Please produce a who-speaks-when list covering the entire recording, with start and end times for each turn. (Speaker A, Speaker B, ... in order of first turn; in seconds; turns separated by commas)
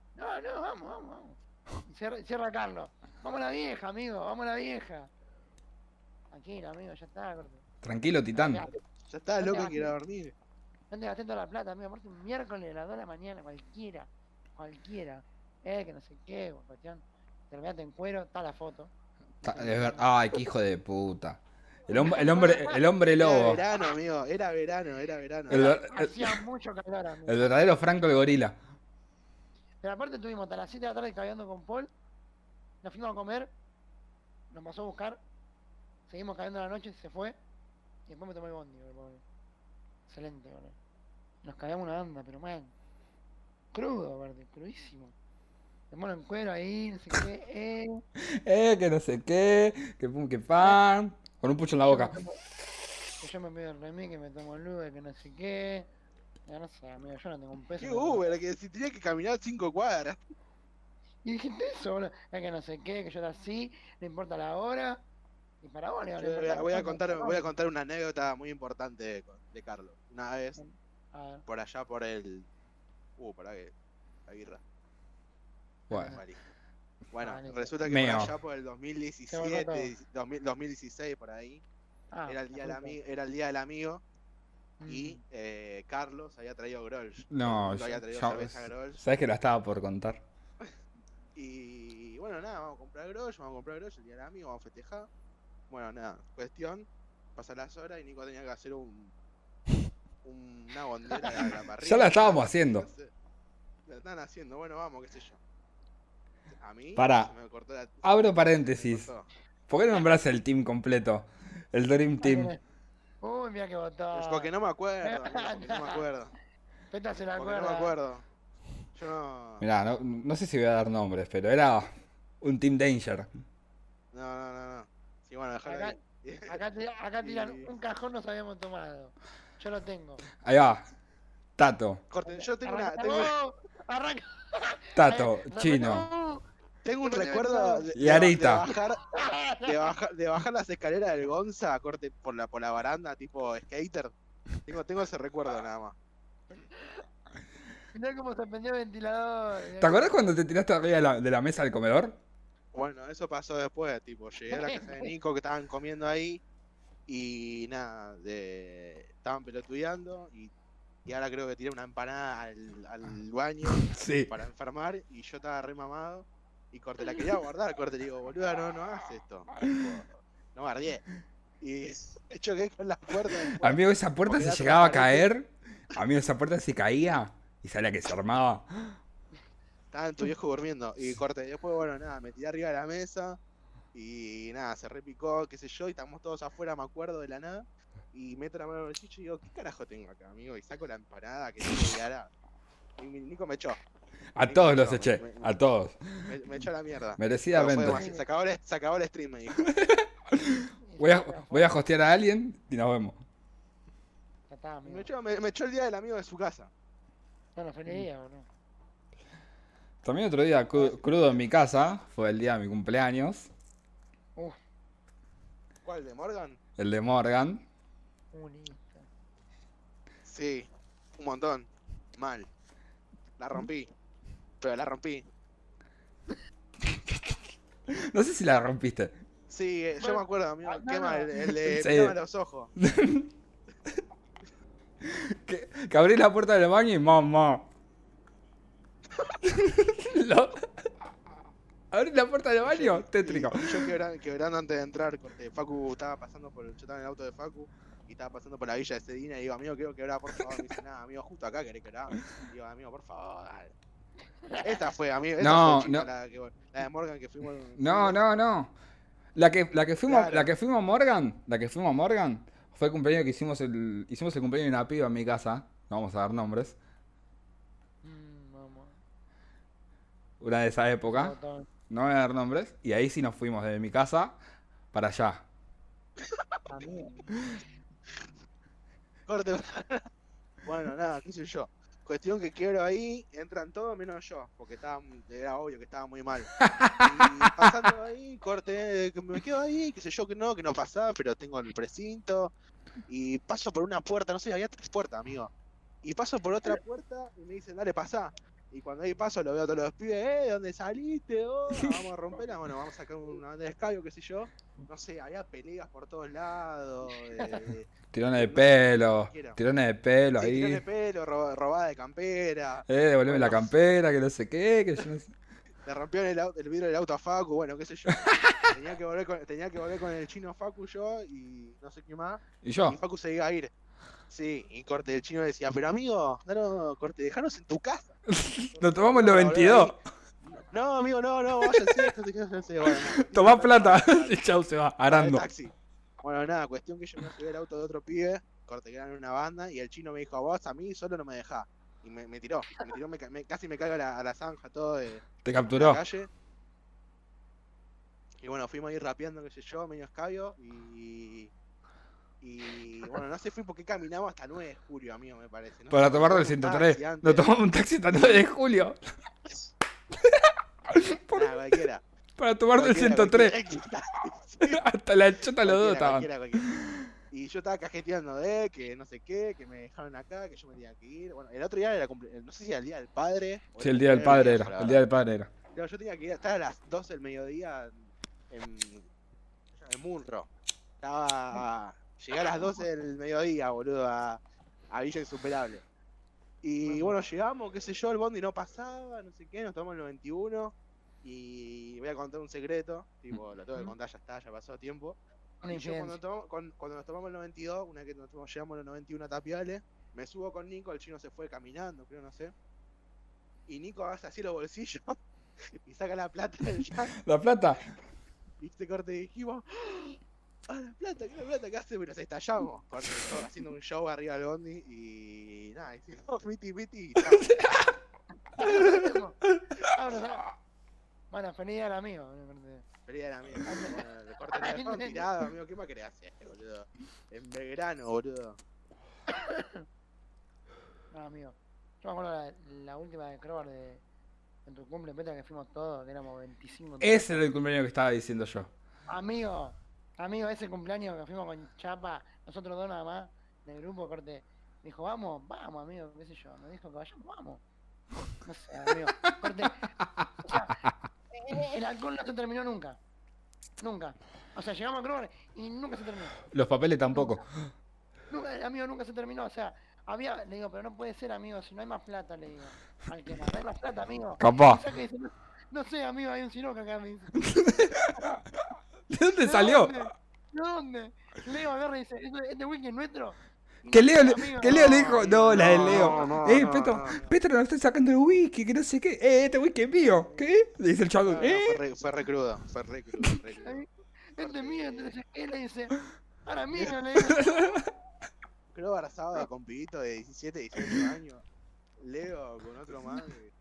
Speaker A: 0.1-5.1, Speaker A: 6.3-7.6, Speaker B: 7.8-8.6, Speaker A: 8.3-8.8, Speaker C: 9.1-10.3, Speaker A: 9.4-9.9, Speaker A: 10.9-20.1, Speaker B: 19.4-23.6, Speaker A: 21.9-22.8, Speaker C: 23.2-25.6, Speaker B: 25.5-26.4, Speaker A: 25.5-27.5, Speaker B: 27.3-28.6, Speaker A: 29.8-31.9, Speaker A: 32.8-33.5, Speaker A: 34.5-35.2, Speaker A: 36.1-37.4, Speaker A: 38.1-39.2, Speaker A: 40.1-40.8, Speaker A: 41.4-42.7, Speaker A: 43.7-45.1, Speaker A: 45.9-48.0, Speaker B: 48.2-52.1, Speaker A: 51.8-52.4, Speaker A: 53.2-55.9, Speaker A: 56.5-58.2, Speaker C: 57.8-60.2, Speaker A: 61.2-65.0, Speaker A: 65.6-67.5, Speaker C: 66.2-70.6, Speaker A: 70.6-71.4, Speaker C: 71.5-72.5, Speaker C: 73.2-73.7, Speaker C: 74.3-74.6, Speaker B: 75.9-76.2, Speaker A: 75.9-76.2, Speaker C: 76.0-76.4, Speaker C: 77.1-81.6, Speaker A: 77.2-77.7, Speaker B: 77.8-78.3, Speaker A: 79.3-79.9, Speaker A: 82.1-83.0, Speaker C: 82.3-84.0, Speaker A: 84.8-85.2, Speaker C: 84.9-89.0, Speaker B: 87.3-90.2, Speaker C: 91.3-95.1, Speaker C: 95.7-99.1, Speaker C: 100.2-103.1, Speaker B: 101.8-102.9, Speaker C: 103.9-105.4, Speaker C: 106.6-109.3, Speaker B: 107.0-107.3, Speaker B: 108.0-109.1, Speaker B: 109.7-112.5, Speaker A: 112.2-112.6, Speaker A: 113.2-114.5, Speaker C: 114.1-116.3, Speaker A: 115.0-116.0, Speaker A: 116.9-117.9, Speaker C: 117.3-118.2, Speaker C: 118.9-119.6, Speaker B: 119.6-121.9, Speaker B: 122.4-123.3, Speaker C: 124.1-126.6, Speaker A: 125.6-130.2, Speaker C: 127.2-127.7, Speaker B: 130.4-130.8, Speaker B: 131.6-132.0, Speaker C: 132.1-133.3, Speaker A: 132.2-136.4, Speaker B: 134.9-136.0, Speaker C: 136.8-139.0, Speaker A: 137.0-137.9, Speaker B: 137.9-138.6, Speaker A: 139.1-139.9, Speaker C: 139.6-144.1, Speaker C: 144.6-145.9, Speaker A: 146.6-147.0, Speaker A: 147.9-150.2, Speaker B: 149.8-152.2, Speaker C: 152.7-156.4, Speaker A: 154.5-155.1, Speaker C: 157.1-160.5, Speaker C: 161.1-171.0, Speaker B: 163.8-164.3, Speaker C: 171.6-175.3, Speaker B: 173.5-179.0, Speaker C: 179.9-183.4, Speaker C: 183.9-192.3, Speaker C: 193.0-193.8, Speaker B: 194.3-196.3, Speaker C: 194.4-195.5, Speaker C: 196.3-199.7, Speaker B: 197.2-198.0, Speaker A: 197.9-198.2, Speaker B: 199.7-203.2, Speaker A: 200.8-201.7, Speaker A: 204.5-205.1, Speaker C: 204.8-206.7, Speaker A: 207.5-208.5, Speaker B: 210.0-213.5, Speaker C: 215.8-216.6, Speaker B: 216.8-217.6, Speaker A: 218.3-219.1, Speaker C: 220.2-222.5, Speaker C: 223.4-223.9, Speaker C: 224.6-225.2, Speaker B: 226.9-227.3, Speaker B: 227.9-229.1, Speaker C: 229.5-232.7, Speaker A: 230.0-231.3, Speaker B: 231.6-232.2, Speaker B: 232.8-233.3, Speaker B: 235.0-237.7, Speaker B: 239.4-240.7, Speaker B: 241.9-243.9, Speaker C: 242.6-253.7, Speaker A: 254.4-254.8, Speaker C: 254.6-258.2, Speaker B: 255.4-256.1, Speaker B: 257.8-258.7, Speaker B: 259.3-266.8, Speaker C: 260.1-260.5, Speaker A: 268.0-268.9, Speaker B: 270.4-271.3, Speaker A: 271.1-271.7, Speaker B: 271.9-274.4, Speaker B: 274.9-275.4, Speaker A: 276.7-277.4, Speaker C: 279.3-280.1, Speaker C: 280.6-292.5, Speaker B: 286.6-287.7, Speaker C: 293.1-295.5, Speaker C: 296.0-309.6, Speaker B: 308.1-310.8, Speaker C: 310.4-313.7, Speaker B: 312.9-315.3, Speaker C: 315.8-323.7, Speaker B: 318.2-318.6, Speaker B: 322.6-323.0, Speaker C: 324.3-328.2, Speaker B: 328.3-329.9, Speaker C: 328.8-329.9, Speaker C: 330.7-334.4, Speaker B: 331.6-332.1, Speaker B: 332.8-335.4, Speaker C: 335.1-346.3, Speaker B: 345.4-346.0, Speaker C: 348.4-351.5, Speaker C: 352.4-357.5, Speaker B: 355.9-359.0, Speaker B: 360.2-361.6, Speaker C: 361.3-362.0, Speaker B: 362.4-363.6, Speaker C: 362.7-364.8, Speaker B: 364.6-367.1, Speaker C: 365.6-366.7, Speaker C: 367.3-375.0, Speaker B: 373.8-375.5, Speaker C: 375.7-377.9, Speaker C: 378.5-379.1, Speaker C: 379.8-380.5, Speaker C: 381.0-384.4, Speaker C: 384.9-385.8, Speaker C: 386.6-395.2, Speaker A: 386.9-387.2, Speaker A: 395.6-396.2, Speaker C: 395.7-402.5, Speaker C: 403.7-405.2, Speaker C: 405.8-407.2, Speaker B: 407.2-407.9, Speaker C: 408.6-410.1, Speaker C: 410.7-417.6, Speaker B: 417.6-417.8, Speaker A: 418.6-420.5, Speaker B: 418.7-419.0, Speaker A: 421.3-422.8, Speaker C: 423.1-428.6, Speaker A: 423.6-424.0, Speaker A: 424.5-425.2, Speaker A: 429.3-429.8, Speaker A: 431.1-434.0, Speaker A: 434.6-437.4, Speaker B: 437.0-438.7, Speaker A: 439.1-447.6, Speaker A: 448.4-449.9, Speaker B: 450.2-450.6, Speaker A: 450.4-450.8, Speaker A: 451.3-453.0, Speaker A: 453.8-456.4, Speaker B: 456.5-457.4, Speaker A: 457.1-457.4, Speaker A: 458.3-467.5, Speaker B: 464.4-464.8, Speaker B: 467.4-468.4, Speaker B: 469.1-470.1, Speaker A: 469.4-476.6, Speaker B: 473.9-481.8, Speaker C: 475.5-477.3, Speaker C: 481.2-483.8, Speaker A: 483.6-487.6, Speaker C: 484.4-485.1, Speaker B: 487.2-487.9, Speaker C: 488.7-491.4, Speaker C: 492.0-493.5